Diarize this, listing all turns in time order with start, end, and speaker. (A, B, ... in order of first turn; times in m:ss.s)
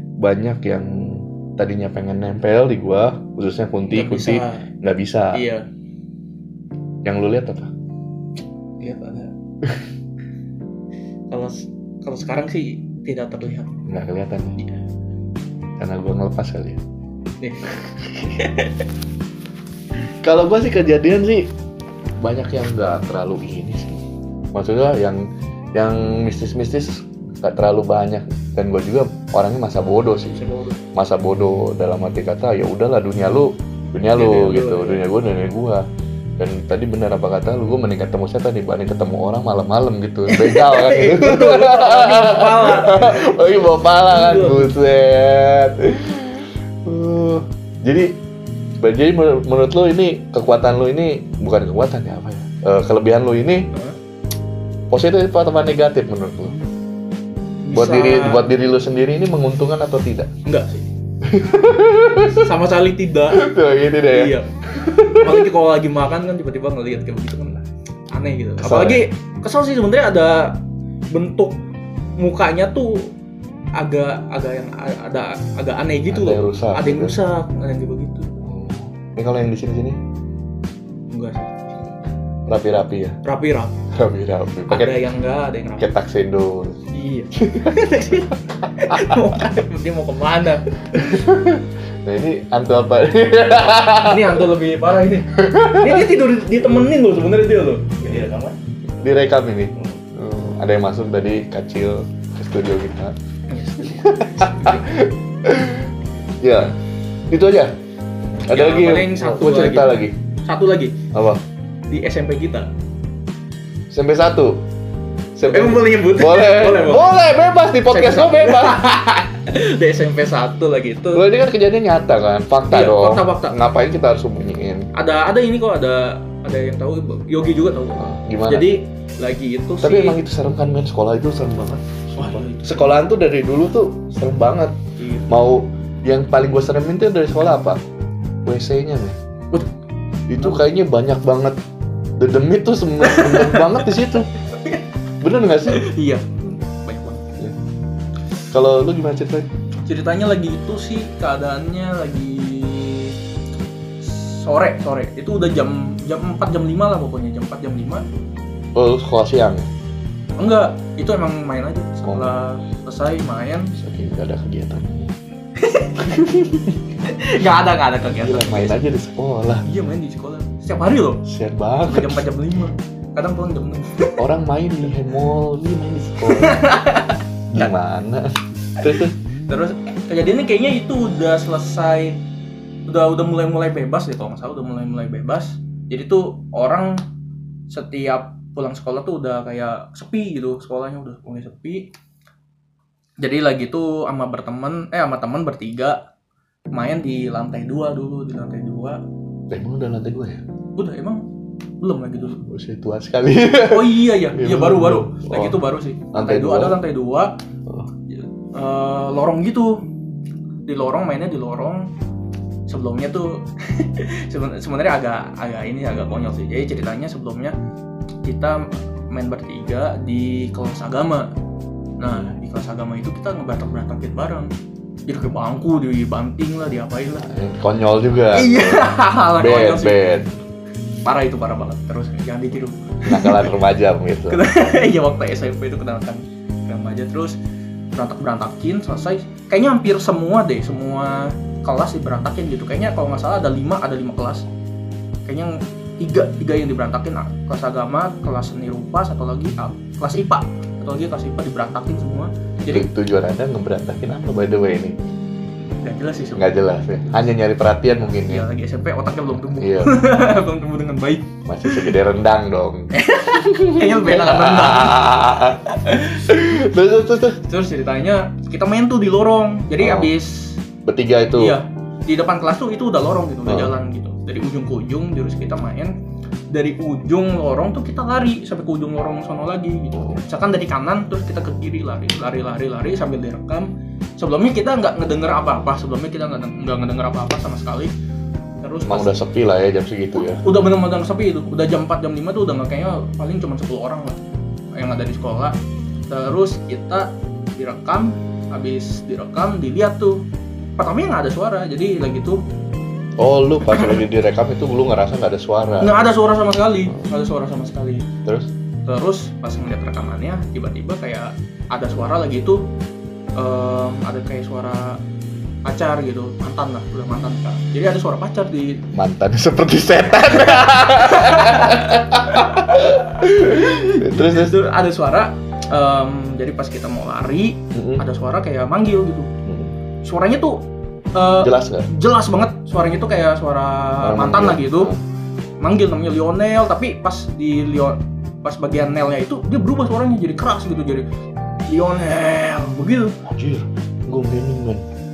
0:00.2-0:05.4 A
0:03.9-0:04.7 B
0:05.3-0:05.6 B
0:07.0-0:07.7 A
0:08.8-0:09.3 B
0:11.3-0:13.8 B
0:13.9-0:14.6 A
0:15.8-0:16.8 A
0:17.4-0:18.8 B
0:20.2-0:21.5 A
0:22.2-0:30.4 A
0:30.3-0:30.8 B
0:30.9-0:35.8 A
0:34.1-0:35.0 B
0:36.4-0:48.2 A
0:40.3-0:44.7 B
0:48.8-0:53.7 A
0:54.9-0:56.6 A
0:57.6-0:58.4 B
0:57.7-1:00.3 A
1:00.4-1:00.9 B
1:01.2-1:02.5 A
1:02.2-1:03.5 B
1:03.3-1:05.4 A
1:04.1-1:10.6 B
1:08.6-1:09.0 A
1:11.1-1:11.6 B
1:12.2-1:13.1 B
1:13.8-1:18.3 B
1:16.1-1:17.2 A
1:18.4-1:20.0 A
1:21.1-1:21.9 B
1:22.5-1:23.2 A
1:23.2-1:23.8 B
1:23.9-1:25.0 A
1:24.7-1:25.9 B
1:25.8-1:26.8 A
1:26.9-1:31.3 B
1:27.4-1:27.8 A
1:28.9-1:29.2 A
1:30.9-1:34.5 A
1:34.0-1:38.6 B
1:35.3-1:36.1 A
1:39.0-1:43.1 A
1:43.5-1:44.9 B
1:43.8-1:46.7 A
1:47.3-1:47.7 A
1:48.4-1:50.1 A
1:48.4-1:51.0 B
1:51.1-1:51.4 A
1:51.9-1:52.7 B
1:53.9-1:54.6 A
1:55.3-1:58.9 A
1:55.4-1:57.2 B
1:57.9-2:01.2 B
2:01.1-2:04.9 A
2:02.7-2:03.6 B
2:04.9-2:10.2 B
2:08.0-2:08.7 A
2:09.8-2:17.8 A
2:12.1-2:13.0 B
2:15.0-2:15.3 B
2:18.4-2:19.2 A
2:20.3-2:21.6 A
2:22.2-2:24.3 A
2:23.0-2:24.8 B
2:25.2-2:25.8 A
2:25.7-2:27.3 B
2:28.5-2:29.5 A
2:29.9-2:33.2 B
2:34.0-2:38.0 B
2:38.8-2:39.7 A
2:40.4-2:43.7 B
2:42.0-2:42.4 A
2:43.7-2:45.1 A
2:45.6-2:48.8 B
2:46.1-2:46.8 A
2:48.0-2:49.6 A
2:49.6-2:51.2 B
2:51.2-2:52.2 A
2:51.8-2:54.2 B
2:54.2-2:56.7 A
2:56.2-2:57.7 B
2:57.5-2:59.1 A
2:58.8-3:02.2 B
3:02.9-3:07.0 B
3:07.7-3:11.9 B
3:13.2-3:16.0 B
3:16.7-3:19.0 B
3:19.5-3:20.4 A
3:20.8-3:21.2 B
3:21.8-3:22.4 B
3:22.2-3:25.6 A
3:23.7-3:27.3 B
3:26.1-3:26.8 A
3:28.1-3:29.8 B
3:30.6-3:31.9 B
3:32.7-3:37.5 B
3:38.2-3:41.3 B
3:42.0-3:44.5 B
3:42.0-3:42.4 A
3:45.1-3:47.3 B
3:47.2-3:50.3 A
3:48.3-3:50.0 B
3:51.0-3:53.5 B
3:53.0-3:54.4 A
3:54.3-3:57.4 B
3:57.9-4:04.5 B
4:05.2-4:12.9 B
4:12.6-4:15.0 A
4:15.8-4:16.5 B
4:16.4-4:18.5 A
4:18.2-4:21.9 B
4:19.5-4:20.0 A
4:21.4-4:25.6 A
4:22.9-4:26.3 B
4:26.2-4:27.4 A
4:27.4-4:30.6 B
4:29.8-4:30.1 A
4:30.8-4:31.6 A
4:31.4-4:36.0 B
4:33.4-4:33.7 A
4:36.5-4:47.9 B
4:39.9-4:40.2 A
4:48.6-4:49.2 B
4:48.8-4:50.4 A
4:50.2-4:54.2 B
4:54.7-4:55.6 B
4:56.1-5:00.2 B
5:00.8-5:02.4 B
5:03.2-5:06.0 A
5:03.6-5:04.0 B
5:05.8-5:08.1 B
5:08.2-5:08.5 A
5:08.8-5:12.6 B
5:13.4-5:15.0 B
5:15.6-5:18.8 B
5:18.9-5:24.6 A
5:20.4-5:29.3 B
5:27.7-5:28.0 A
5:29.4-5:29.7 A
5:30.0-5:34.9 B
5:31.4-5:31.9 A
5:34.0-5:35.0 A
5:35.6-5:41.1 B
5:41.7-5:43.2 B
5:43.2-5:44.8 A